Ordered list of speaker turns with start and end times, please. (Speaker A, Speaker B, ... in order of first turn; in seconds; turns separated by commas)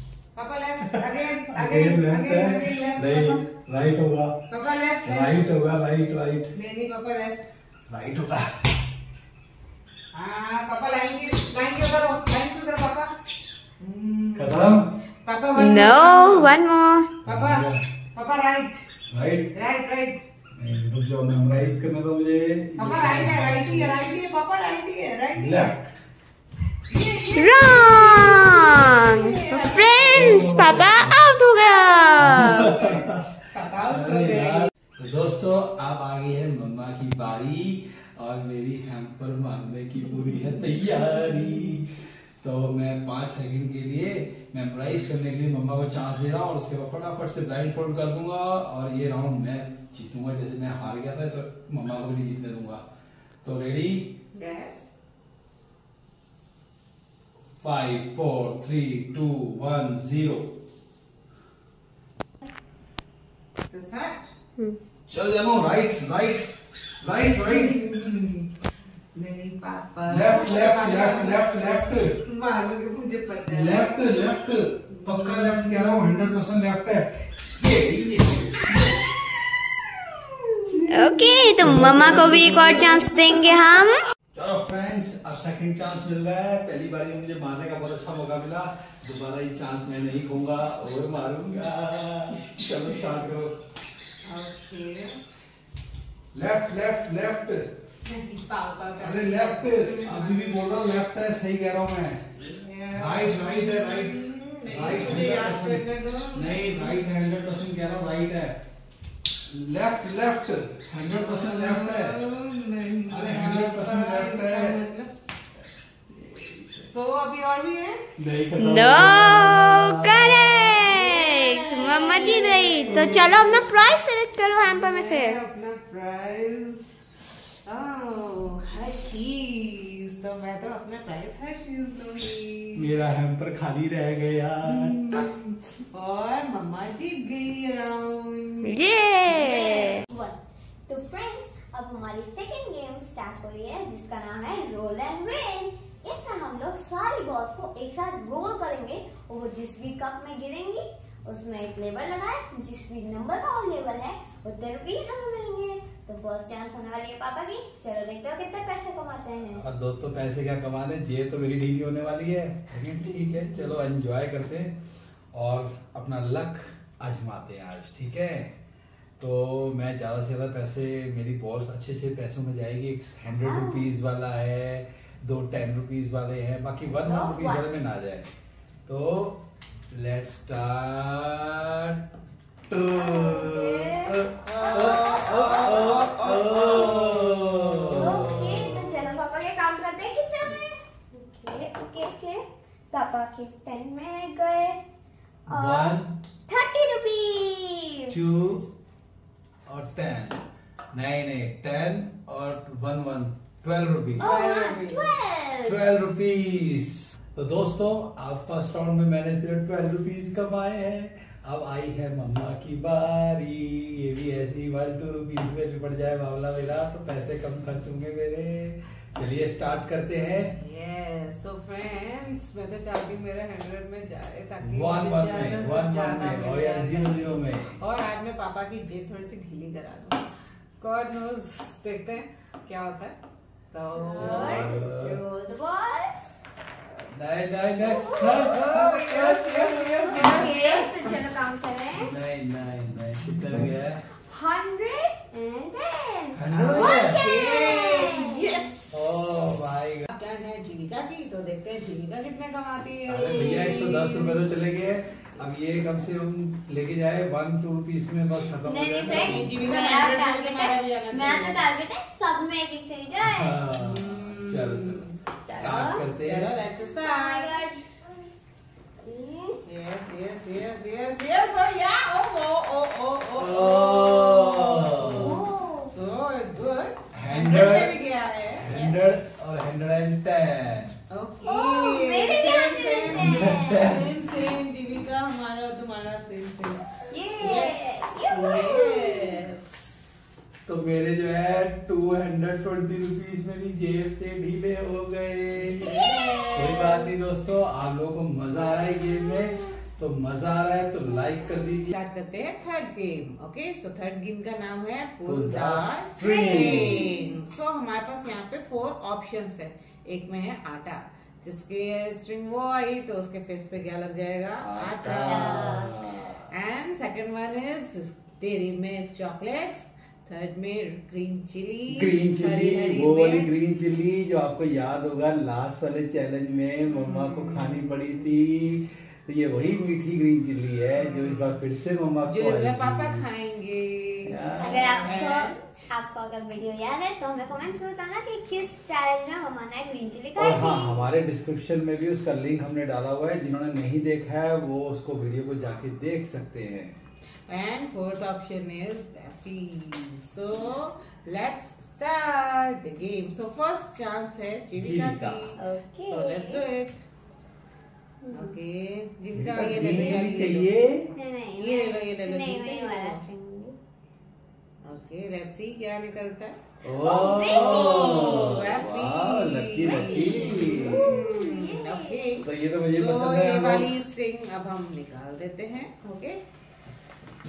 Speaker A: 0.3-3.4, Speaker B: 0.9-4.4, Speaker A: 4.5-5.5, Speaker B: 5.0-6.5, Speaker A: 6.5-7.4, Speaker B: 7.9-8.7, Speaker A: 10.1-13.2, Speaker A: 13.8-16.5, Speaker B: 14.3-14.9, Speaker C: 15.6-17.1, Speaker A: 17.2-18.9, Speaker B: 17.2-17.8, Speaker B: 19.1-19.5, Speaker A: 19.5-20.2, Speaker B: 20.6-23.9, Speaker A: 22.8-25.7, Speaker B: 25.3-25.9, Speaker A: 26.8-30.6, Speaker C: 27.4-32.7, Speaker B: 30.0-31.2, Speaker B: 32.2-52.8, Speaker A: 32.2-34.7, Speaker B: 53.4-54.1, Speaker A: 54.3-54.9, Speaker B: 57.6-60.5, Speaker A: 63.7-64.3, Speaker B: 65.1-67.8, Speaker A: 67.5-68.5, Speaker A: 69.1-74.0, Speaker B: 70.1-72.2, Speaker B: 73.5-79.1, Speaker B: 80.7-83.2, Speaker C: 80.9-84.0, Speaker B: 84.3-93.6, Speaker A: 94.2-95.2, Speaker B: 96.3-97.7, Speaker A: 98.0-100.6, Speaker B: 99.0-102.2, Speaker A: 102.4-107.0, Speaker B: 102.9-108.6, Speaker B: 109.5-112.2, Speaker A: 111.1-115.1, Speaker B: 113.1-114.8, Speaker B: 116.1-116.9, Speaker A: 116.8-118.1, Speaker B: 118.2-120.7, Speaker C: 118.6-125.4, Speaker A: 120.7-123.7, Speaker A: 124.6-127.0, Speaker A: 127.6-132.9, Speaker B: 132.8-135.0, Speaker A: 134.6-140.0, Speaker C: 138.6-159.6, Speaker B: 159.6-164.8, Speaker B: 165.3-168.5, Speaker B: 169.2-178.3, Speaker C: 173.3-173.9, Speaker C: 177.1-177.6, Speaker B: 178.8-182.0, Speaker B: 182.7-189.0, Speaker C: 182.8-187.0, Speaker A: 184.4-188.4, Speaker C: 187.9-194.8, Speaker C: 195.5-198.2, Speaker B: 195.5-196.1, Speaker B: 198.1-198.7, Speaker B: 199.7-204.3, Speaker A: 204.2-205.1, Speaker C: 204.2-206.0, Speaker B: 205.6-220.6, Speaker A: 220.6-230.3, Speaker B: 224.6-227.8, Speaker A: 230.8-233.2, Speaker A: 233.7-234.7, Speaker C: 234.0-236.3, Speaker B: 234.1-235.2, Speaker B: 237.1-240.5, Speaker C: 237.8-238.6, Speaker A: 238.5-241.2, Speaker C: 240.1-242.1, Speaker B: 241.9-244.1, Speaker C: 244.2-248.6, Speaker B: 246.3-247.2, Speaker A: 246.5-248.9, Speaker B: 248.9-250.1, Speaker A: 250.1-254.4, Speaker B: 253.1-259.5, Speaker C: 258.6-263.6, Speaker A: 259.1-261.7, Speaker B: 263.2-266.5, Speaker A: 263.8-265.2, Speaker C: 265.5-266.0, Speaker A: 266.2-268.0, Speaker C: 266.9-268.0, Speaker C: 269.0-269.6, Speaker A: 269.6-279.3, Speaker B: 273.4-275.4, Speaker C: 275.0-275.9, Speaker B: 277.1-278.0, Speaker B: 278.6-280.9, Speaker A: 281.1-286.8, Speaker C: 281.4-283.9, Speaker B: 283.1-284.1, Speaker C: 287.1-289.4, Speaker A: 287.4-289.9, Speaker B: 290.6-295.9, Speaker A: 295.8-296.9, Speaker C: 295.8-297.0, Speaker B: 296.5-301.9, Speaker A: 301.9-315.9, Speaker B: 305.2-307.1, Speaker C: 306.2-307.2, Speaker B: 314.6-316.5, Speaker C: 315.2-316.0, Speaker A: 316.5-323.6, Speaker B: 321.9-333.2, Speaker A: 326.9-327.8, Speaker A: 331.1-331.4, Speaker A: 332.2-335.9, Speaker B: 334.2-335.1, Speaker C: 334.6-341.1, Speaker B: 340.4-347.0, Speaker A: 347.5-356.9, Speaker B: 354.8-355.5, Speaker C: 355.6-356.6, Speaker C: 358.2-358.5, Speaker A: 358.3-360.7, Speaker B: 359.3-361.1, Speaker C: 361.1-363.8, Speaker A: 361.6-363.2, Speaker A: 364.8-366.6, Speaker B: 366.8-371.2, Speaker C: 367.0-368.6, Speaker A: 367.6-376.4, Speaker C: 369.8-372.3, Speaker B: 372.4-373.9